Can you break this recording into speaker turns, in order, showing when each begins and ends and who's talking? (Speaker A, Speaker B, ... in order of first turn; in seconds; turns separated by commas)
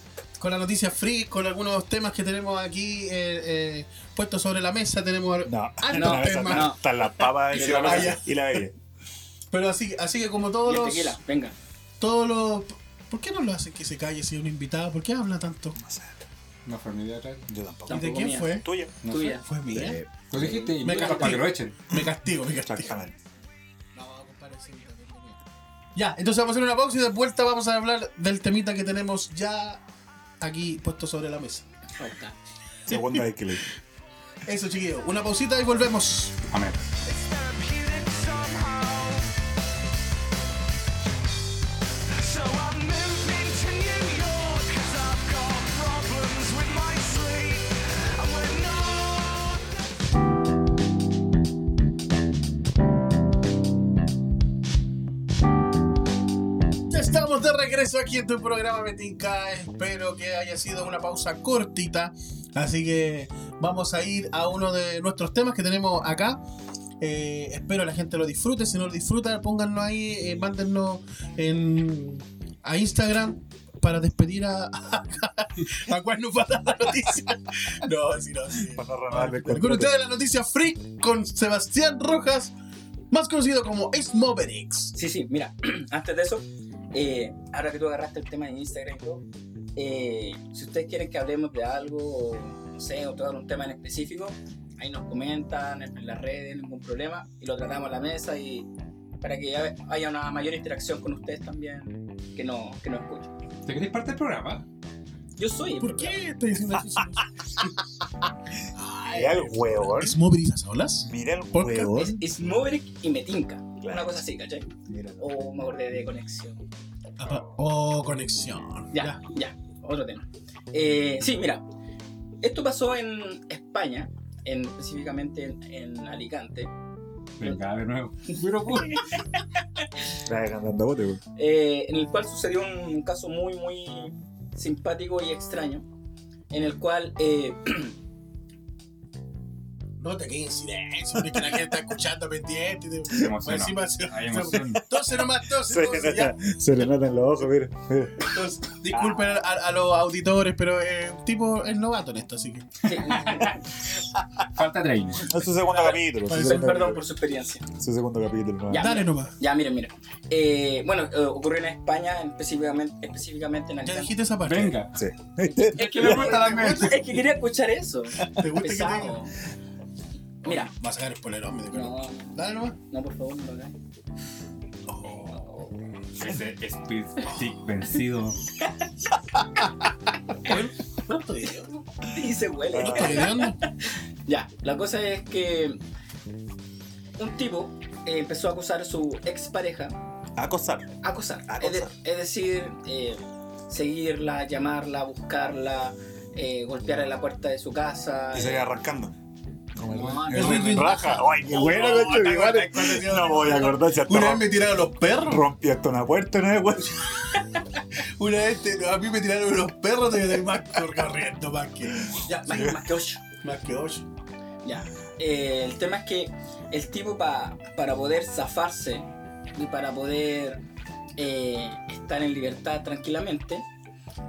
Speaker A: 0.4-6.7, Speaker B: 5.4-8.7, Speaker C: 5.9-6.8, Speaker C: 7.5-8.2, Speaker A: 7.5-8.2, Speaker A: 9.5-11.2, Speaker C: 10.6-11.6, Speaker A: 12.0-15.8, Speaker B: 15.8-16.2, Speaker D: 16.6-17.5, Speaker B: 17.5-19.0, Speaker C: 17.9-19.4, Speaker A: 17.9-18.7, Speaker D: 19.0-19.4, Speaker A: 19.4-20.0, Speaker B: 19.7-20.7, Speaker D: 20.3-21.8, Speaker A: 20.8-23.0, Speaker C: 20.9-21.4, Speaker B: 22.6-23.1, Speaker A: 23.9-25.4, Speaker A: 25.9-29.8, Speaker A: 30.4-31.6, Speaker C: 32.0-32.4, Speaker B: 32.9-33.6, Speaker A: 32.9-33.2, Speaker A: 34.4-36.4, Speaker D: 36.5-36.8, Speaker E: 37.0-39.3, Speaker E: 42.2-49.8, Speaker A: 56.9-66.4, Speaker A: 67.0-82.5, Speaker B: 78.6-79.9, Speaker A: 83.1-84.9, Speaker C: 84.9-89.2, Speaker C: 89.8-98.7, Speaker C: 99.2-103.3, Speaker D: 103.6-104.6, Speaker C: 105.3-106.2, Speaker A: 105.8-107.7, Speaker A: 108.7-112.0, Speaker B: 109.1-110.2, Speaker B: 111.0-112.2, Speaker C: 111.9-114.7, Speaker B: 113.8-114.2, Speaker B: 114.8-115.2, Speaker C: 115.2-116.6, Speaker A: 117.2-119.2, Speaker C: 118.9-121.6, Speaker C: 122.4-126.7, Speaker D: 127.4-129.2, Speaker C: 128.8-129.8, Speaker B: 130.2-131.2, Speaker C: 131.3-135.8, Speaker C: 136.5-137.9, Speaker A: 140.0-146.4, Speaker D: 143.1-144.9, Speaker B: 145.6-148.3, Speaker A: 148.2-152.7, Speaker B: 148.9-149.3, Speaker C: 152.8-153.6, Speaker D: 152.9-153.6, Speaker D: 154.4-155.4, Speaker B: 155.2-157.0, Speaker C: 155.7-157.6, Speaker A: 156.3-156.6, Speaker B: 157.6-158.9, Speaker C: 158.7-164.2, Speaker A: 158.7-159.3, Speaker A: 163.8-164.8, Speaker D: 164.4-164.9, Speaker B: 164.9-166.3, Speaker C: 165.6-169.3, Speaker D: 165.8-167.1, Speaker A: 166.0-167.0, Speaker A: 168.3-169.3, Speaker C: 170.4-170.7, Speaker A: 170.4-172.8, Speaker C: 171.7-173.7, Speaker A: 174.9-175.8, Speaker D: 176.2-178.4, Speaker C: 178.6-178.9, Speaker A: 180.4-182.0, Speaker C: 182.1-185.8, Speaker B: 182.7-183.3, Speaker A: 182.7-183.6, Speaker C: 187.2-189.9, Speaker B: 190.3-190.9, Speaker C: 191.0-198.7, Speaker B: 191.5-191.9, Speaker B: 198.3-199.1, Speaker B: 199.7-204.4, Speaker D: 199.9-200.9, Speaker C: 199.9-201.8, Speaker A: 200.3-205.4, Speaker B: 205.2-207.1, Speaker A: 207.2-212.8, Speaker B: 211.9-212.8, Speaker C: 212.3-213.2, Speaker A: 213.4-214.1, Speaker C: 214.6-220.6, Speaker C: 221.2-223.7